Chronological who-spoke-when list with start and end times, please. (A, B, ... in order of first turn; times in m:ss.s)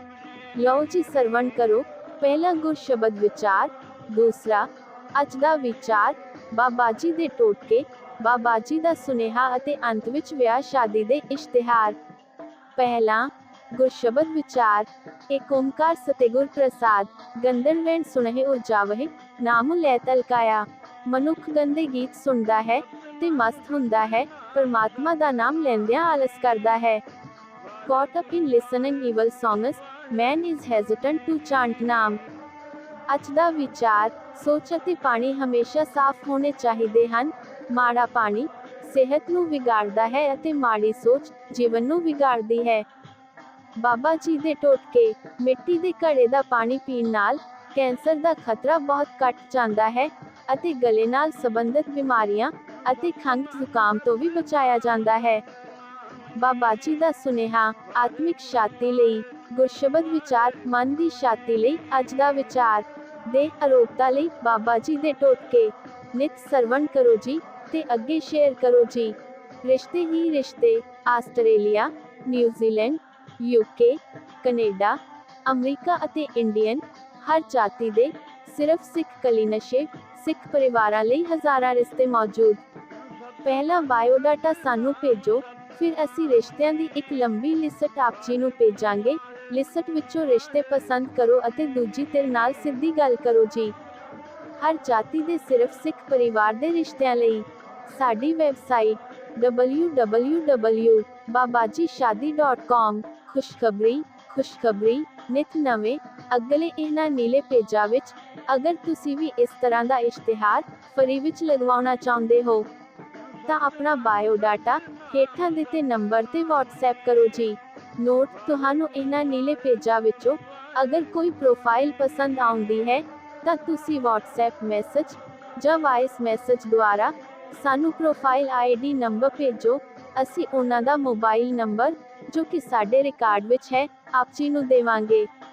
0:00.6-0:12.0 A
0:12.8-0:27.0 A
0:27.8-0:32.2 A
0:33.1-0:42.8 A
0:43.8-0:55.4 A
0:56.4-1:22.6 A
1:23.4-1:33.7 A
1:34.6-1:52.7 A
1:53.4-2:15.3 A